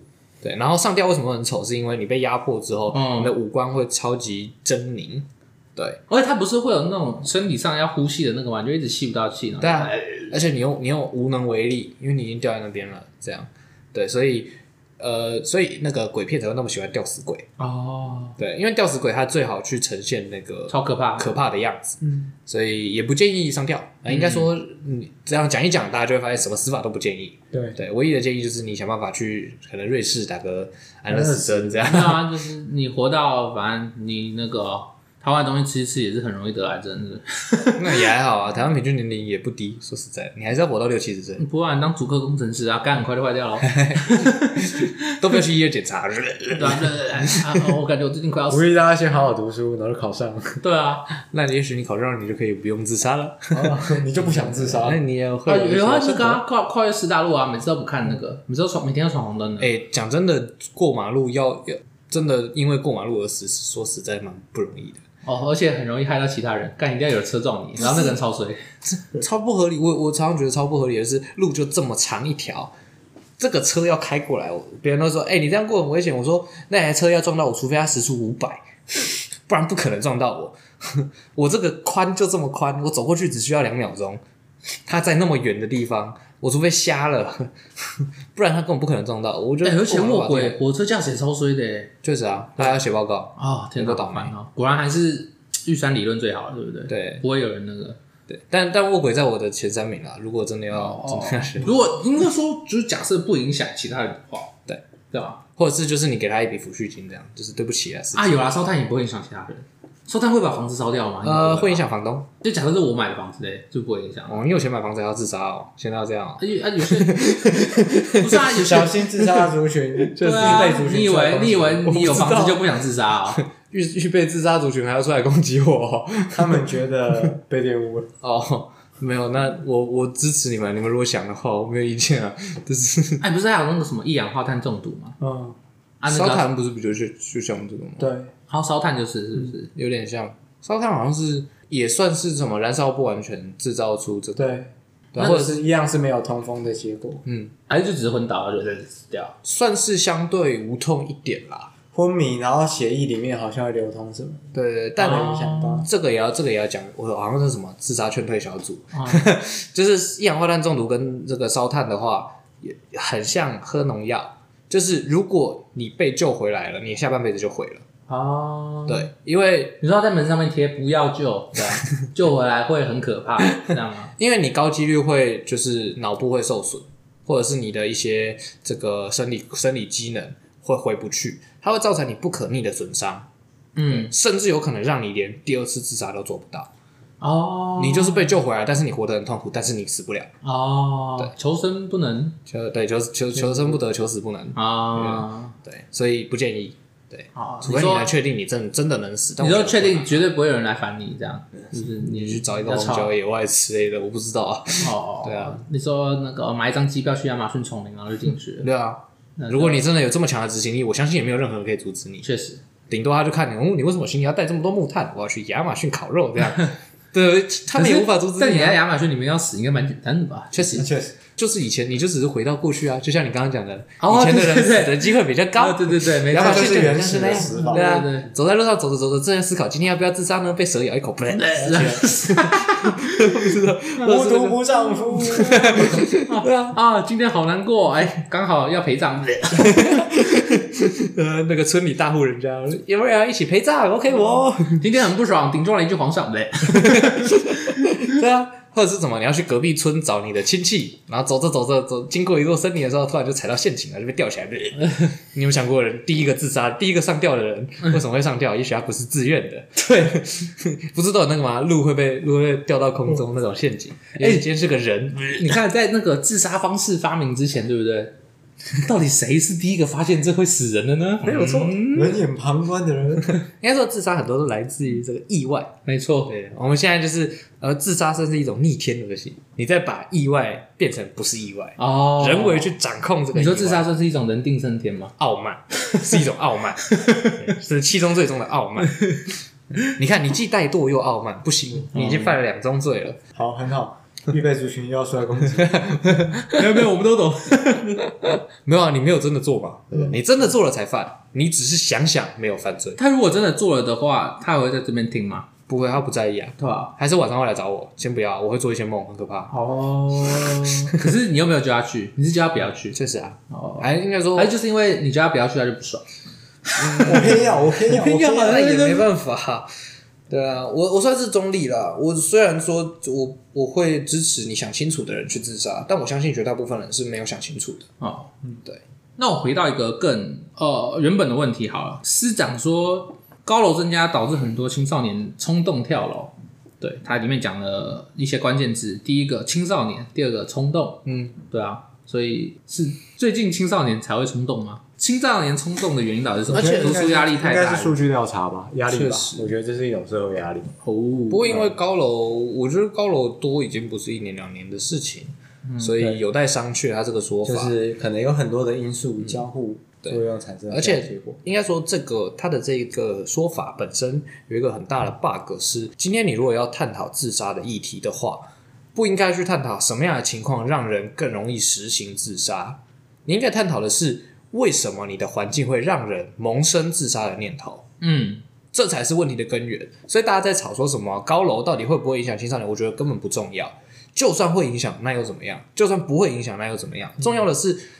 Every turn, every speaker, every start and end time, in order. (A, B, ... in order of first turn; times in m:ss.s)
0:00.4-0:06.0 A
0:02.9-0:03.3 B
0:06.1-0:10.3 B
0:09.6-0:17.5 A
0:17.6-0:18.4 B
0:18.4-0:32.4 A
0:20.7-0:21.3 B
0:24.1-0:24.5 B
0:31.1-0:31.9 C
0:31.8-0:38.1 B
0:37.8-0:41.4 A
0:41.4-0:45.1 B
0:43.6-0:47.7 A
0:46.5-0:48.7 B
0:48.5-0:50.6 C
0:50.6-0:51.0 B
0:51.2-0:56.4 A
0:53.5-0:55.0 C
0:55.4-0:59.7 B
0:59.6-1:05.0 A
1:05.2-1:08.6 B
1:07.8-1:08.2 A
1:08.9-1:12.7 A
1:13.4-1:24.2 A
1:24.8-1:30.6 A
1:29.6-1:31.9 B
1:32.0-1:34.3 A
1:33.4-1:38.0 B
1:36.9-1:37.2 A
1:38.3-1:41.8 A
1:40.7-1:44.5 B
1:45.1-1:45.4 B
1:45.5-1:48.4 A
1:48.1-1:51.8 B
1:51.2-1:52.3 A
1:52.4-1:54.4 B
1:54.3-1:58.7 A
1:56.4-1:59.0 B
1:58.5-2:02.4 C
2:00.0-2:00.9 A
2:00.2-2:03.4 B
2:01.8-2:02.8 A
2:03.3-2:06.6 A
2:06.3-2:08.1 C
2:08.2-2:13.2 A
2:13.2-2:15.2 B
2:15.2-2:15.6 C
2:16.0-2:16.5 B
2:16.0-2:18.1 A
2:18.0-2:18.3 C
2:18.5-2:19.7 B
2:19.5-2:24.6 A
2:24.4-2:27.2 C
2:25.1-2:25.6 A
2:27.2-2:27.5 A
2:27.7-2:29.3 B
2:29.4-2:31.7 A
2:31.9-2:34.4 C
2:34.5-2:47.8 A
2:35.0-2:35.8 B
2:35.0-2:35.9 C
2:38.9-2:39.3 B
2:48.1-2:49.1 B
2:48.9-2:49.8 A
2:49.8-2:54.1 B
2:54.2-3:03.3 A
3:03.8-3:04.1 B
3:03.9-3:06.7 A
3:07.2-3:08.3 B
3:07.8-3:10.3 A
3:10.4-3:12.4 B
3:12.5-3:20.2 A
3:14.5-3:15.5 B
3:17.3-3:18.1 B
3:19.4-3:23.1 B
3:21.9-3:25.6 A
3:24.8-3:28.7 B
3:28.6-3:32.2 A
3:29.4-3:29.8 B
3:32.2-3:32.6 B
3:32.9-3:38.8 A
3:37.7-3:40.8 B
3:40.5-3:56.8 A
3:40.7-3:41.2 C
3:44.0-3:48.3 B
3:46.3-3:47.9 C
3:51.3-3:53.3 B
3:54.0-3:56.1 C
3:55.1-4:00.1 B
3:59.5-4:04.8 A
4:04.8-4:07.7 B
4:06.7-4:25.6 A
4:19.8-4:20.2 B
4:24.2-4:24.4 B
4:25.3-4:28.1 B
4:28.8-4:32.2 B
4:31.2-4:31.8 A
4:31.8-4:33.4 C
4:33.2-4:35.7 A
4:35.8-4:36.3 B
4:36.3-4:43.9 A
4:41.8-4:42.7 B
4:43.3-4:45.1 B
4:45.2-4:49.1 A
4:47.0-4:47.5 B
4:49.0-4:49.2 B
4:49.8-4:53.2 A
4:51.9-4:52.3 B
4:53.3-4:56.3 C
4:55.6-4:56.8 A
4:56.4-4:58.1 B
4:57.8-5:03.0 A
5:03.0-5:05.5 B
5:05.7-5:09.5 A
5:06.6-5:06.9 B
5:09.5-5:13.0 B
5:12.9-5:14.5 A
5:13.5-5:16.0 B
5:16.8-5:17.2 B
5:16.8-5:19.7 A
5:17.0-5:19.1 C
5:20.3-5:27.9 A
5:28.0-5:28.3 B
5:29.2-5:48.0 B
5:41.0-5:41.3 A
5:46.5-5:47.2 A
5:46.5-5:50.8 C
5:48.9-5:49.5 A
5:50.8-5:51.7 B
5:51.3-5:57.7 A
5:55.6-5:55.9 B
5:57.4-6:01.4 C
6:00.0-6:17.8 A
6:18.0-6:18.4 B
6:18.7-6:27.8 A